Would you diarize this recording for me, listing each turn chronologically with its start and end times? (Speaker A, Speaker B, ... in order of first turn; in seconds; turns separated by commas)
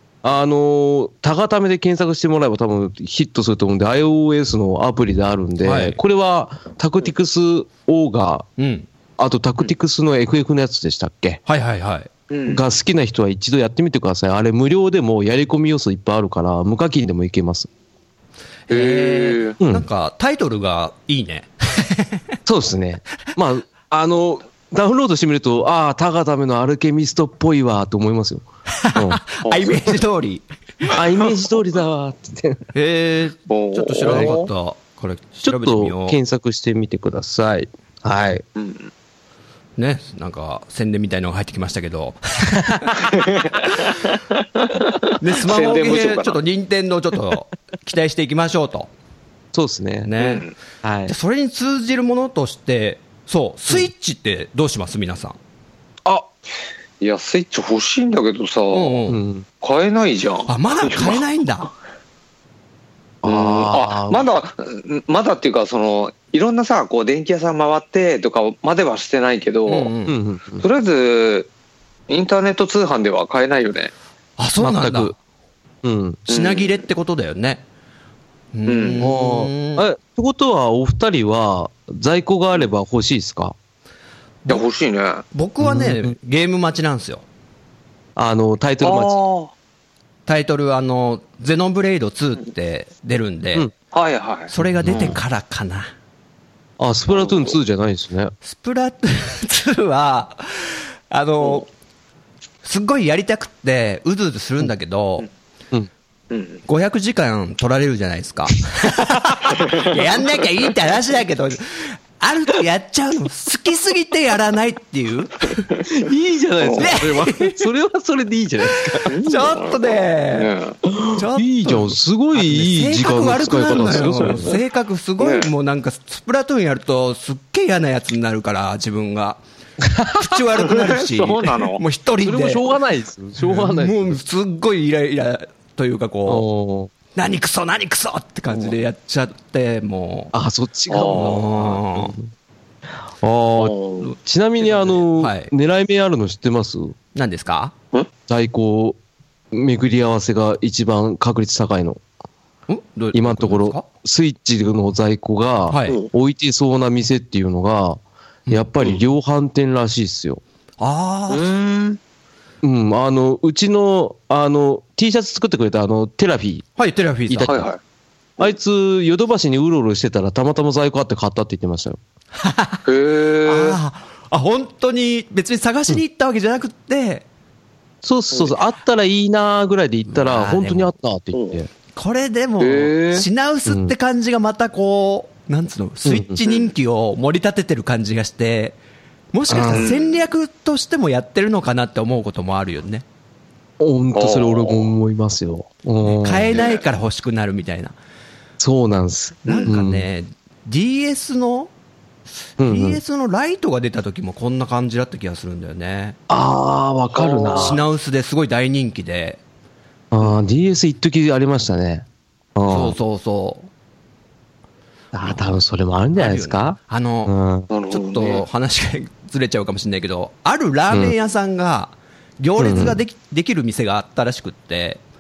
Speaker A: 0.2-8.4, Speaker B: 5.6-6.0, Speaker B: 8.6-8.9, Speaker A: 9.2-11.4, Speaker B: 11.5-12.1, Speaker C: 12.3-12.6, Speaker A: 12.5-17.7, Speaker C: 18.7-19.6, Speaker B: 18.7-22.2, Speaker A: 19.6-19.9, Speaker A: 22.4-29.2, Speaker B: 28.8-30.9, Speaker C: 29.4-29.9, Speaker A: 30.9-32.6, Speaker B: 32.7-36.2, Speaker C: 33.5-34.5, Speaker A: 34.1-34.3, Speaker A: 35.4-38.4, Speaker C: 38.5-38.9, Speaker B: 39.8-43.1, Speaker C: 43.1-46.4, Speaker B: 45.2-48.9, Speaker A: 49.5-50.1, Speaker B: 50.0-50.5, Speaker C: 50.2-50.5, Speaker A: 50.8-51.1, Speaker B: 51.0-55.4, Speaker C: 57.0-59.0, Speaker B: 58.7-59.2, Speaker A: 59.1-59.5, Speaker C: 59.6-61.2, Speaker B: 60.5-61.7, Speaker A: 63.2-64.2, Speaker C: 63.2-69.9, Speaker B: 69.7-70.2, Speaker A: 70.1-70.6, Speaker C: 70.6-71.5, Speaker C: 72.1-73.9, Speaker B: 74.4-75.1, Speaker A: 74.6-75.1, Speaker A: 75.8-76.2, Speaker C: 76.3-76.8, Speaker B: 76.3-77.6, Speaker B: 78.5-79.8, Speaker C: 78.7-79.1, Speaker A: 79.0-83.5, Speaker C: 84.5-85.2, Speaker B: 85.3-87.2, Speaker A: 85.6-86.1, Speaker A: 88.2-89.2, Speaker C: 88.8-89.5, Speaker B: 90.3-93.7, Speaker C: 93.9-95.1, Speaker B: 94.5-95.9, Speaker A: 94.8-95.2, Speaker A: 96.8-98.3, Speaker C: 97.1-97.6, Speaker B: 98.4-101.7, Speaker B: 102.6-105.3, Speaker C: 106.3-106.6, Speaker B: 106.7-115.7, Speaker A: 115.8-119.1, Speaker C: 116.6-117.0, Speaker B: 116.8-117.6, Speaker C: 119.1-120.8, Speaker B: 119.2-120.5, Speaker A: 120.9-124.5, Speaker B: 121.1-129.4, Speaker C: 124.1-124.6, Speaker C: 125.2-125.5, Speaker A: 129.9-130.3, Speaker B: 130.1-132.7, Speaker C: 130.6-131.8, Speaker A: 132.2-134.2, Speaker B: 133.4-136.4, Speaker A: 136.2-136.9, Speaker B: 137.1-140.3, Speaker A: 140.3-142.3, Speaker C: 140.9-141.4, Speaker B: 141.1-142.2, Speaker A: 143.2-146.9, Speaker C: 143.6-144.1, Speaker B: 144.6-145.5, Speaker B: 147.1-147.7, Speaker A: 148.3-149.0, Speaker A: 149.5-152.0, Speaker B: 152.7-153.9, Speaker A: 153.1-160.4, Speaker B: 155.7-156.0, Speaker B: 160.8-161.4, Speaker C: 161.3-162.0, Speaker A: 162.6-166.7, Speaker B: 166.8-167.7, Speaker A: 167.3-167.7, Speaker C: 167.4-167.8, Speaker A: 168.4-172.0, Speaker B: 172.4-172.8, Speaker C: 172.8-173.8, Speaker B: 173.4-177.2, Speaker A: 178.0-181.7, Speaker B: 180.1-180.9, Speaker C: 181.3-181.6, Speaker B: 181.9-188.8, Speaker C: 182.6-183.3, Speaker A: 183.7-183.9, Speaker A: 186.0-186.4, Speaker C: 186.4-186.7, Speaker B: 189.3-193.0, Speaker A: 189.5-189.9, Speaker C: 189.5-190.2, Speaker A: 193.8-196.6, Speaker C: 194.1-194.9, Speaker B: 196.0-197.9, Speaker C: 196.5-196.8, Speaker A: 198.6-200.1, Speaker B: 199.4-201.7, Speaker C: 199.5-199.7, Speaker B: 202.6-206.2, Speaker A: 202.6-203.0, Speaker A: 206.3-207.8, Speaker C: 207.1-207.8, Speaker B: 207.5-209.4, Speaker A: 210.1-212.9, Speaker B: 212.6-213.7, Speaker A: 215.1-217.7, Speaker B: 216.1-217.3, Speaker C: 217.7-218.4, Speaker B: 217.9-225.0, Speaker A: 222.6-223.0